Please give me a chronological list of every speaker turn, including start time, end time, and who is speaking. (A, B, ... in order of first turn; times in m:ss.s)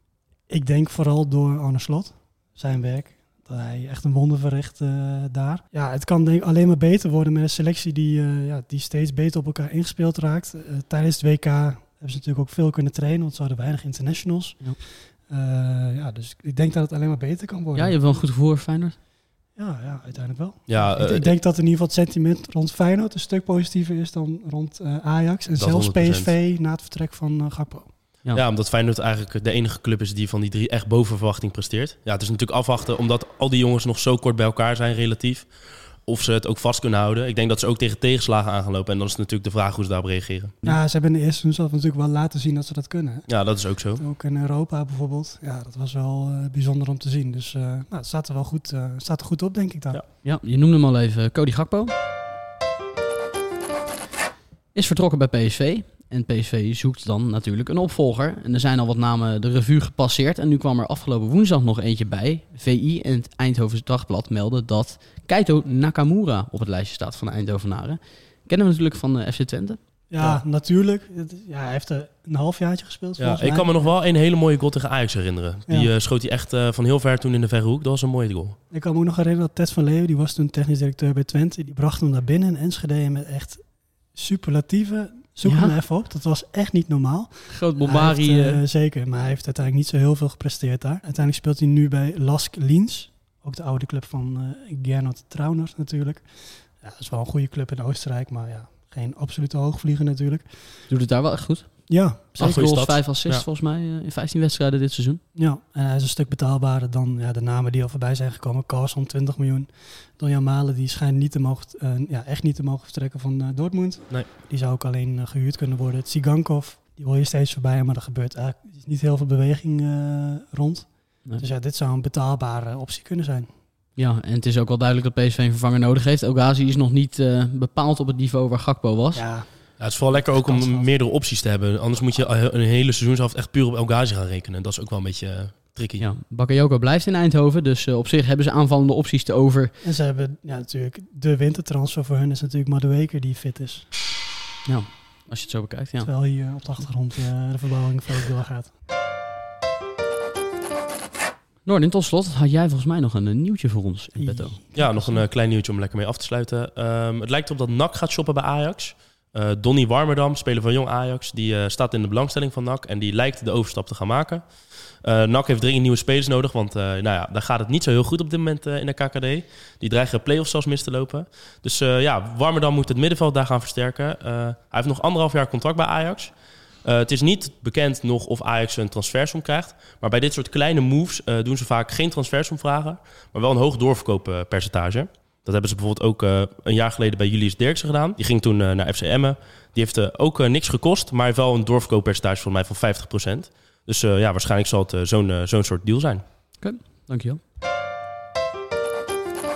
0:00.5-0:18.0 A
0:17.7-0:18.9 B
0:19.5-0:27.9 A
0:20.7-0:21.3 C
0:25.6-0:26.3 C
0:28.3-0:40.6 C
0:40.6-0:50.0 A
0:43.3-0:44.0 C
0:50.2-0:51.9 B
0:54.7-1:10.4 B
1:10.1-1:13.9 A
1:13.2-1:18.6 C
1:18.7-1:40.9 A
1:25.4-1:25.7 B
1:27.5-1:28.6 B
1:40.9-1:45.2 B
1:41.9-1:42.6 A
1:42.4-1:43.4 C
1:45.3-2:03.5 A
2:04.0-2:09.3 B
2:09.1-2:10.9 A
2:09.8-2:16.0 C
2:16.0-2:19.7 B
2:19.8-2:23.9 A
2:24.6-2:26.7 B
2:26.0-2:28.7 A
2:31.6-2:34.6 B
2:34.1-2:35.2 A
2:34.7-3:16.2 C
3:16.6-3:17.4 B